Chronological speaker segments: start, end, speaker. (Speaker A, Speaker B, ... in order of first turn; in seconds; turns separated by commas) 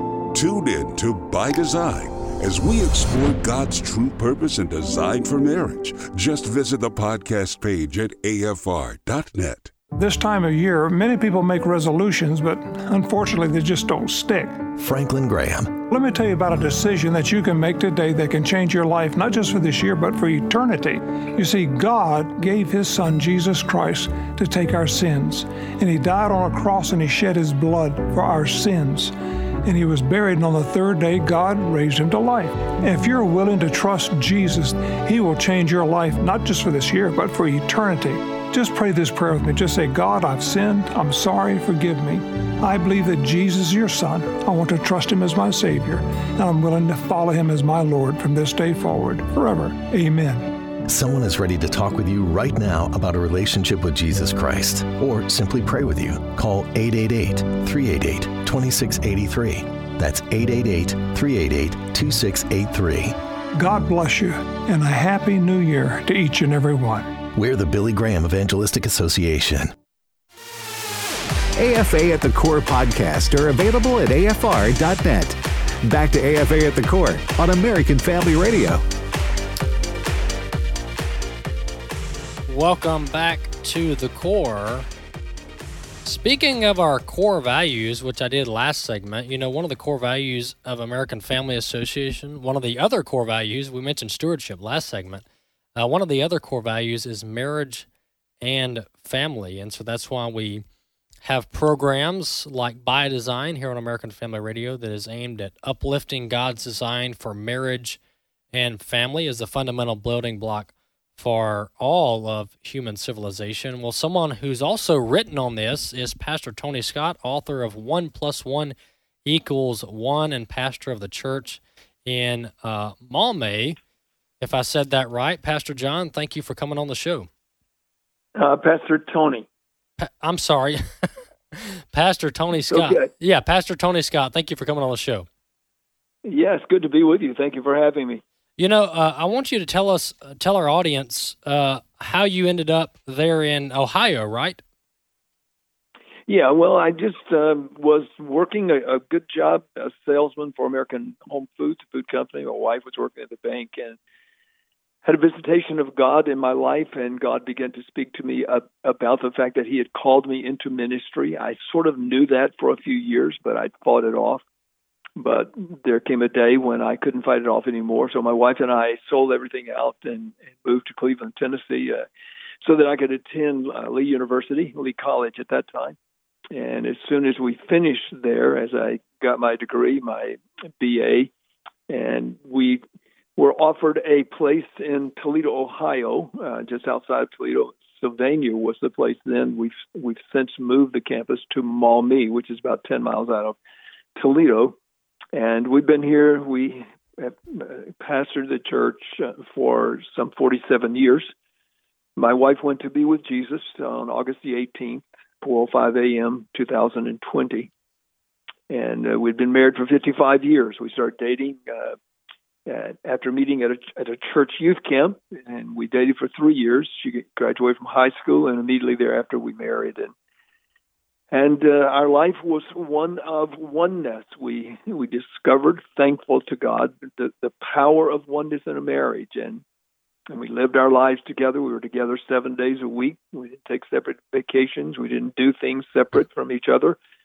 Speaker A: 0.3-9.7, Speaker B: 10.0-14.6, Speaker B: 15.8-50.5, Speaker C: 50.9-63.0, Speaker B: 63.6-67.2, Speaker C: 67.4-69.6, Speaker D: 71.6-78.8, Speaker E: 82.5-84.9, Speaker E: 86.0-95.2, Speaker E: 95.8-97.9, Speaker E: 98.4-100.6, Speaker E: 101.2-108.0, Speaker E: 108.5-123.8, Speaker E: 124.4-127.3, Speaker F: 128.4-129.4, Speaker E: 130.0-130.8, Speaker E: 131.5-135.3, Speaker F: 132.7-133.1, Speaker F: 136.2-138.2, Speaker E: 138.6-144.6, Speaker F: 146.3-154.0, Speaker F: 155.1-164.4, Speaker F: 165.2-172.1, Speaker F: 172.6-176.0, Speaker F: 176.5-181.3, Speaker F: 181.9-182.8, Speaker F: 183.4-193.6, Speaker F: 194.2-194.8, Speaker F: 195.3-201.3, Speaker F: 202.2-207.7, Speaker F: 208.7-212.0, Speaker F: 212.7-220.1, Speaker F: 221.3-229.6, Speaker F: 230.3-237.0